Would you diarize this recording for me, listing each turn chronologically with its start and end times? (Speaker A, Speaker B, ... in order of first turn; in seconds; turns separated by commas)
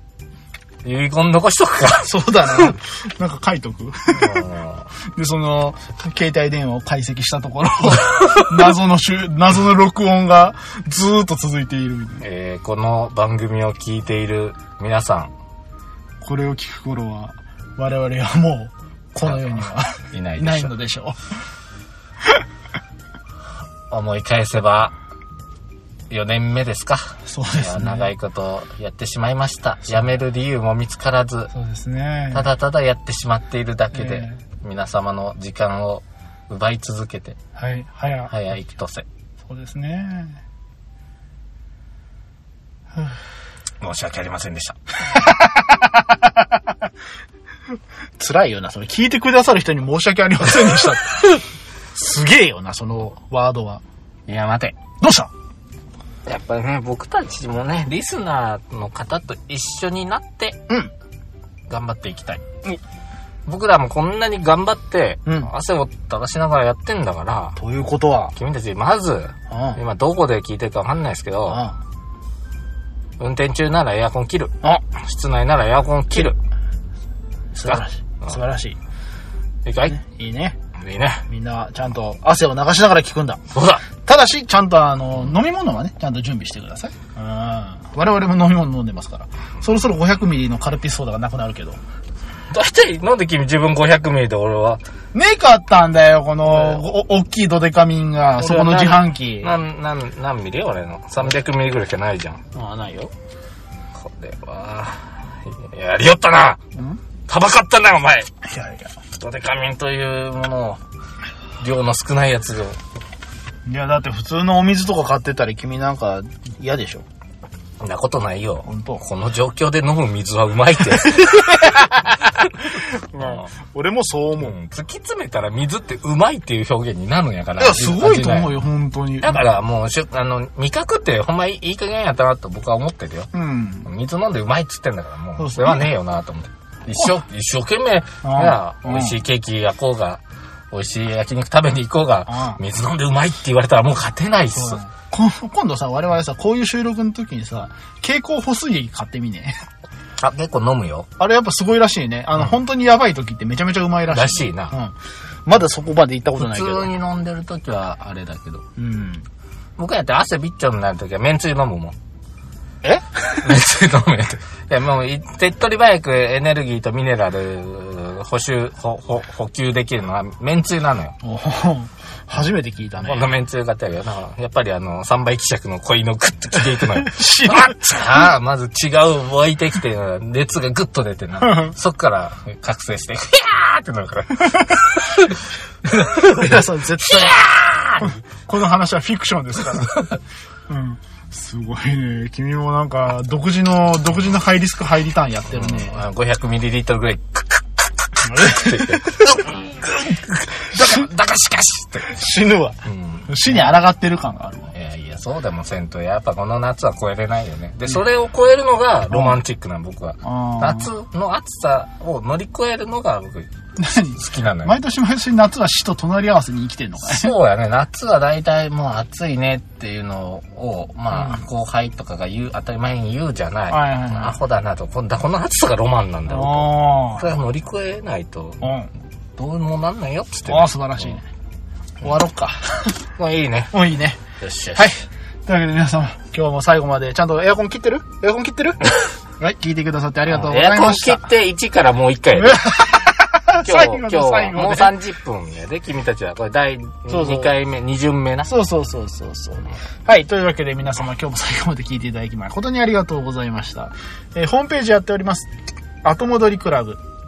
Speaker A: 0.8-2.8, Speaker B: 2.0-4.5, Speaker A: 4.1-4.9, Speaker B: 5.2-12.2, Speaker A: 8.1-8.6, Speaker A: 12.2-15.3, Speaker B: 16.2-21.2, Speaker A: 19.2-20.7, Speaker A: 23.9-24.9, Speaker A: 26.1-31.5, Speaker B: 27.3-28.1, Speaker B: 31.5-32.5, Speaker A: 32.3-37.4, Speaker B: 33.9-34.4, Speaker B: 37.6-38.3, Speaker A: 38.3-39.1, Speaker B: 39.5-40.4, Speaker A: 43.8-44.8, Speaker B: 45.1-46.7, Speaker B: 48.2-53.8, Speaker A: 54.3-54.8, Speaker B: 55.0-55.3, Speaker A: 56.2-60.6, Speaker A: 61.7-62.4, Speaker A: 63.5-67.6, Speaker B: 65.3-65.5, Speaker B: 67.6-68.3, Speaker A: 68.3-71.6, Speaker B: 69.5-69.8, Speaker B: 71.5-71.8, Speaker A: 73.2-76.4, Speaker B: 77.5-78.8, Speaker A: 77.7-78.3, Speaker A: 79.7-80.0, Speaker B: 79.9-80.6, Speaker A: 80.8-81.2, Speaker B: 81.3-83.4, Speaker A: 83.5-83.9, Speaker B: 84.0-91.8, Speaker A: 92.5-94.8, Speaker B: 95.1-99.5, Speaker A: 96.5-96.8, Speaker A: 98.3-102.4, Speaker B: 102.5-103.1, Speaker A: 104.0-106.6, Speaker B: 106.8-107.0, Speaker A: 107.3-108.3, Speaker B: 108.4-109.0, Speaker A: 109.1-110.8, Speaker A: 111.6-112.8, Speaker B: 113.7-117.0, Speaker A: 117.8-122.5, Speaker B: 118.7-119.0, Speaker B: 121.0-124.5, Speaker A: 123.2-123.5, Speaker A: 124.4-128.6, Speaker B: 127.6-129.4, Speaker A: 129.2-133.3, Speaker B: 133.3-133.9, Speaker A: 133.8-144.8, Speaker B: 135.4-135.9, Speaker B: 138.2-139.2, Speaker B: 142.3-142.6, Speaker B: 144.5-149.6, Speaker A: 150.2-151.1, Speaker B: 151.2-154.9, Speaker A: 154.1-154.8, Speaker B: 155.5-156.9, Speaker A: 156.4-158.6, Speaker B: 158.8-159.2, Speaker A: 159.8-162.0, Speaker B: 162.8-163.5, Speaker A: 163.4-171.2, Speaker B: 171.2-173.3, Speaker A: 173.0-188.2, Speaker B: 176.9-178.2, Speaker B: 181.4-181.8, Speaker B: 186.1-187.4, Speaker B: 188.0-190.2, Speaker B: 190.7-196.0, Speaker A: 195.5-202.2, Speaker B: 198.2-199.5, Speaker B: 202.1-204.7, Speaker A: 202.8-203.7, Speaker A: 204.7-214.8, Speaker B: 209.1-209.4, Speaker B: 210.2-210.9, Speaker B: 213.8-217.3, Speaker A: 217.0-228.6, Speaker B: 221.1-221.4, Speaker B: 223.7-224.4, Speaker B: 226.3-227.3, Speaker B: 228.6-228.9, Speaker A: 229.4-231.2, Speaker B: 230.5-231.3, Speaker A: 232.0-232.4, Speaker B: 232.0-233.0, Speaker A: 233.2-233.7, Speaker B: 233.7-234.2, Speaker A: 234.4-234.9, Speaker B: 234.8-241.2, Speaker A: 240.3-242.8, Speaker B: 242.4-245.0, Speaker A: 243.6-248.5, Speaker B: 247.1-247.6, Speaker B: 248.4-255.5, Speaker B: 256.0-257.0